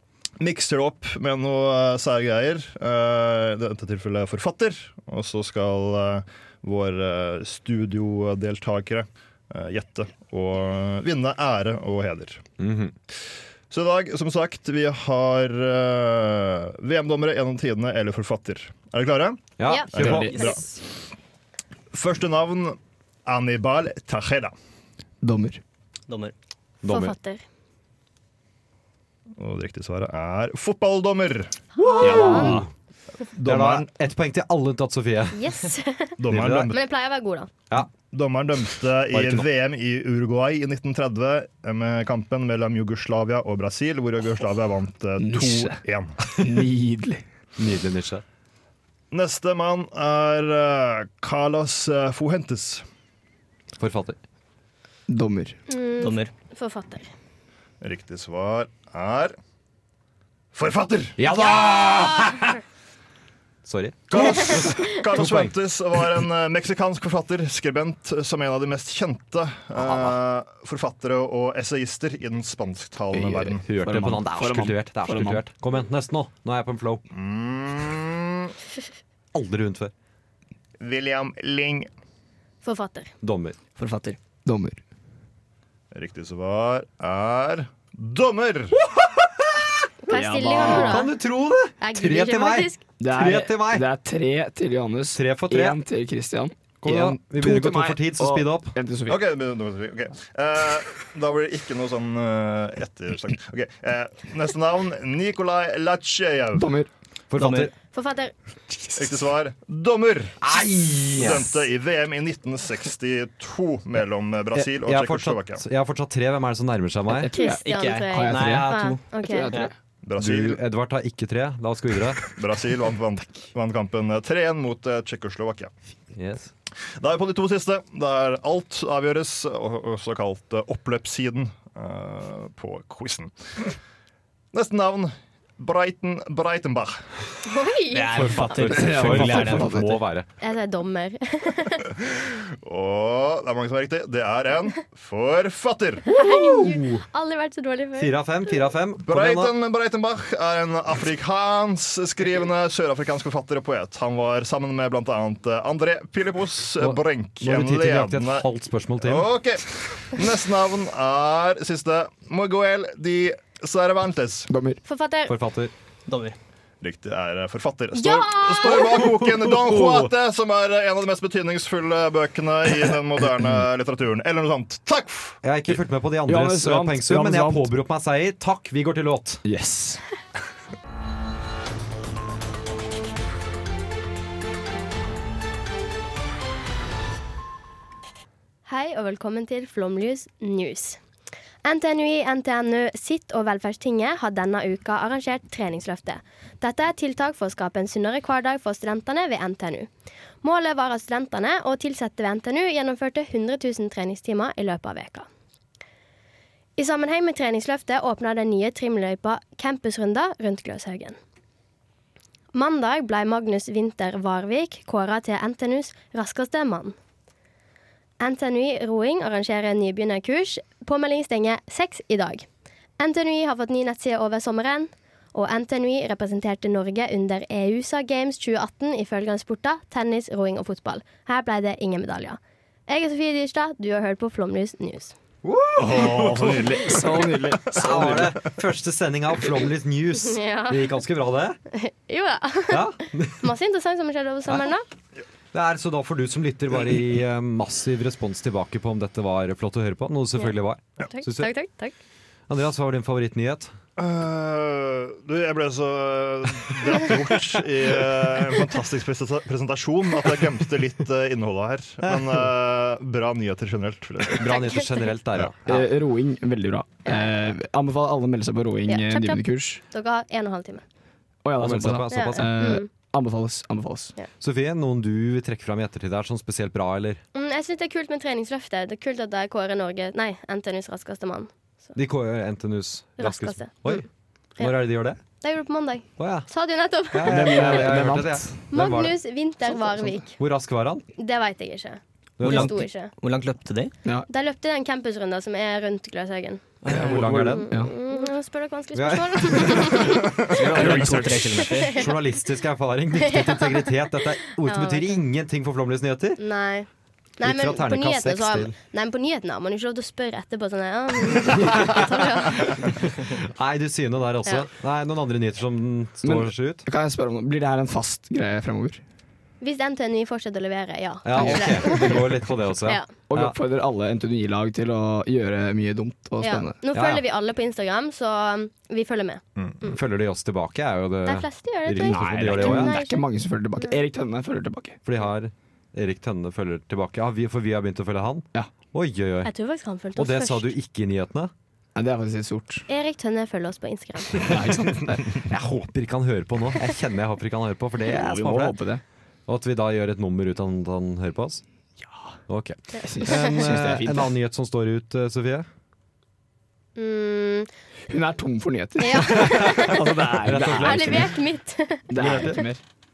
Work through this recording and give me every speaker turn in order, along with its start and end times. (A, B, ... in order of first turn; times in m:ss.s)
0:00.4-0:12.4 A
0:12.6-0:12.9 B
0:13.7-0:20.6 A
0:19.6-0:20.4 B
0:19.6-0:20.6 C
0:20.0-0:20.3 D
0:21.9-0:24.5 A
0:25.2-0:25.6 D
0:26.1-0:26.3 E
0:26.8-0:27.1 B
0:26.9-0:27.4 C
0:29.4-0:32.6 A
0:31.8-0:32.6 C
0:31.8-0:32.7 B
0:32.1-0:32.6 D
0:33.4-0:33.9 A
0:33.4-0:35.5 B
0:35.3-0:37.5 C
0:36.2-0:36.8 A
0:36.3-0:36.8 B
0:38.0-0:46.2 A
0:39.1-0:39.5 B
0:45.2-0:45.8 D
0:46.4-0:47.2 D
0:47.6-0:48.2 B
0:49.1-0:52.8 A
0:53.8-0:54.2 B
0:55.1-0:55.6 D
0:55.7-0:57.1 C
0:56.0-0:56.3 E
0:57.8-0:59.4 A
1:00.5-1:01.3 A
1:01.2-1:02.5 B
1:03.6-1:05.5 B
1:04.1-1:13.6 A
1:09.8-1:10.2 B
1:13.1-1:15.4 D
1:13.6-1:17.0 B
1:17.1-1:18.5 A
1:19.3-1:19.9 B
1:20.8-1:21.9 A
1:22.6-1:23.1 C
1:23.2-1:23.6 B
1:23.8-1:24.2 E
1:24.4-1:24.8 D
1:25.9-1:28.8 A
1:28.8-1:29.6 B
1:30.0-1:31.1 C
1:30.1-1:31.1 D
1:30.6-1:33.9 B
1:31.8-1:32.8 C
1:33.0-1:39.2 D
1:35.1-1:35.8 B
1:36.8-1:38.8 B
1:39.0-1:46.7 A
1:46.6-1:46.9 D
1:47.3-1:47.7 B
1:47.4-1:47.7 E
1:47.9-1:48.3 C
1:49.0-1:50.5 A
1:50.4-1:51.6 B
1:51.1-1:55.6 A
1:54.5-1:57.3 B
1:57.1-1:59.7 D
1:57.3-1:59.5 C
1:57.6-1:59.7 E
2:00.0-2:00.6 A
2:00.2-2:02.2 B
2:02.2-2:05.7 A
2:06.1-2:06.5 B
2:07.0-2:13.7 A
2:14.5-2:17.1 A
2:17.4-2:18.7 C
2:17.9-2:20.0 E
2:18.1-2:20.3 B
2:18.7-2:20.0 D
2:20.4-2:21.9 C
2:22.1-2:26.1 A
2:26.1-2:28.1 C
2:26.1-2:27.0 B
2:28.0-2:29.5 B
2:29.0-2:38.4 A
2:36.8-2:39.3 B
2:39.0-2:44.5 A
2:44.5-2:44.8 D
2:44.8-2:45.4 C
2:45.3-2:45.7 B
2:46.1-2:46.4 E
2:46.8-2:55.4 A
2:47.9-2:49.1 C
2:55.4-2:59.4 B
2:56.3-2:57.7 D
2:59.4-3:00.0 D
3:08.6-3:11.0 C
3:11.6-3:19.9 C
3:20.4-3:25.3 C
3:26.8-3:31.2 C
3:32.5-3:37.0 C
3:38.2-3:42.5 C
3:43.0-3:55.1 C
3:55.4-3:56.6 B
3:55.8-3:58.4 D
3:55.8-3:57.3 A
3:57.7-4:01.6 B
3:57.8-3:58.2 A
4:00.2-4:01.0 C
4:01.7-4:04.8 C
4:02.7-4:03.5 B
4:05.5-4:11.5 B
4:11.0-4:11.9 C
4:12.5-4:13.7 B
4:14.0-4:24.5 A
4:24.3-4:25.9 B
4:24.4-4:25.0 C
4:25.6-4:29.8 D
4:27.0-4:27.3 C
4:28.9-4:30.8 C
4:31.4-4:34.1 D
4:31.6-4:32.7 B
4:32.1-4:32.9 C
4:34.4-4:37.2 B
4:37.3-4:41.9 C
4:41.9-4:44.1 B
4:43.2-4:44.0 C
4:44.6-4:45.2 B
4:45.4-4:47.9 C
4:46.2-4:46.5 B
4:47.1-4:49.2 B
4:47.2-4:48.6 D
4:48.7-4:50.4 C
4:50.4-4:51.0 B
4:51.2-4:53.1 C
4:52.4-4:52.8 B
4:52.4-4:53.9 E
4:54.3-4:56.8 C
4:56.8-4:57.5 E
4:56.9-4:57.7 B
4:56.9-4:57.9 D
4:57.3-5:00.5 C
4:58.9-5:00.1 B
5:00.5-5:01.9 E
5:00.5-5:01.7 D
5:01.7-5:02.1 C
5:01.9-5:06.4 B
5:03.1-5:04.0 C
5:04.6-5:05.2 C
5:06.4-5:06.9 C
5:07.4-5:12.9 C
5:07.4-5:08.8 B
5:11.7-5:12.0 B
5:12.8-5:16.8 B
5:16.2-5:19.0 D
5:19.6-5:23.1 C
5:21.2-5:23.5 B
5:21.4-5:22.2 D
5:23.3-5:26.8 D
5:26.4-5:30.0 C
5:26.9-5:27.2 B
5:29.8-5:33.0 B
5:31.2-5:34.0 C
5:32.0-5:35.0 D
5:35.0-5:39.5 B
5:39.4-5:40.7 C
5:40.2-5:41.5 B
5:41.9-5:42.8 D
5:42.9-5:44.5 C
5:44.4-5:45.4 D
5:45.4-5:48.8 B
5:48.1-5:49.0 D
5:49.5-5:51.6 B
5:52.5-5:55.7 B
5:53.0-5:54.3 D
5:53.3-5:53.5 C
5:57.0-5:57.7 C
5:58.1-6:01.4 D
5:59.0-6:02.6 C
5:59.5-6:01.3 B
6:02.1-6:02.8 D
6:02.1-6:02.6 B